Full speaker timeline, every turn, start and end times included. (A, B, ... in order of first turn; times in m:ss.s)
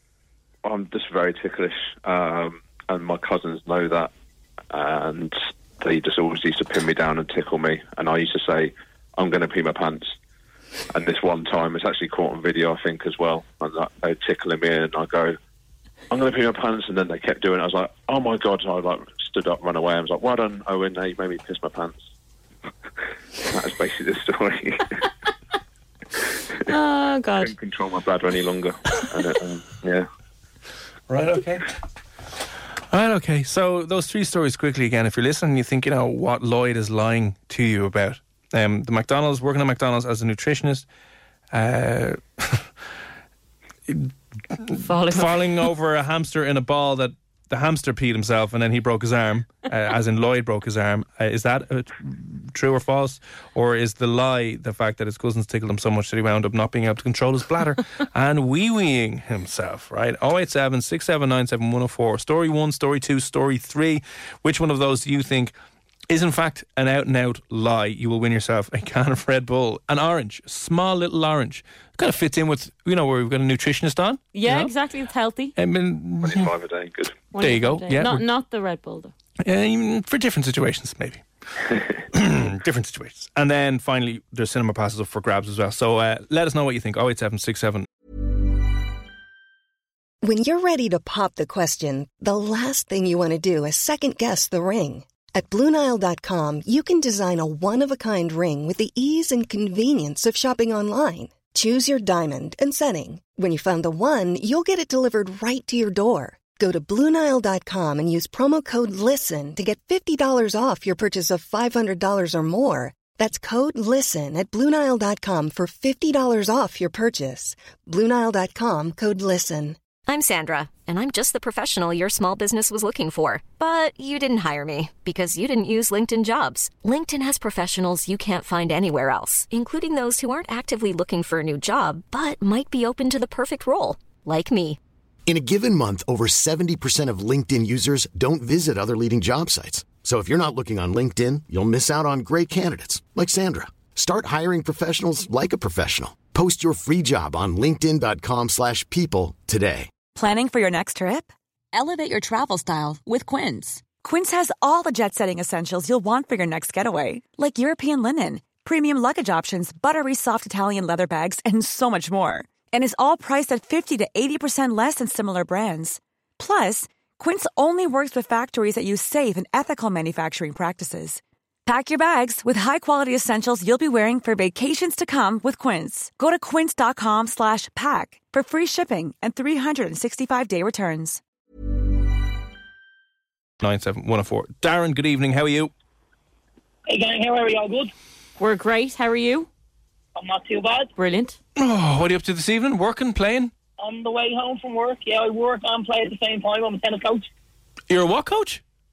0:00.6-0:04.1 A
0:04.7-0:10.1 A
0:10.9-0:15.4 A
0:16.1-0:22.0 A
0:23.4-0:25.1 A
0:26.6-0:27.5 B
0:27.4-0:30.1 A
0:31.1-0:31.6 C
0:32.9-0:40.8 C
0:41.5-0:42.7 C
0:43.9-1:05.5 C
0:44.8-0:45.4 B
1:06.1-1:14.7 C
1:14.3-1:15.5 B
1:15.6-1:16.5 C
1:16.2-1:17.2 A
1:17.3-1:19.1 B
1:17.4-1:18.2 C
1:19.4-1:27.9 C
1:30.2-1:59.8 D
2:00.0-2:14.8 E
2:15.2-2:29.9 F
2:30.1-3:01.2 G
3:03.6-3:05.7 C
3:06.9-3:07.9 H
3:08.4-3:09.5 B
3:10.2-3:10.9 H
3:11.0-3:11.4 B
3:11.6-3:13.5 C
3:13.8-3:17.3 H
3:17.9-3:18.6 C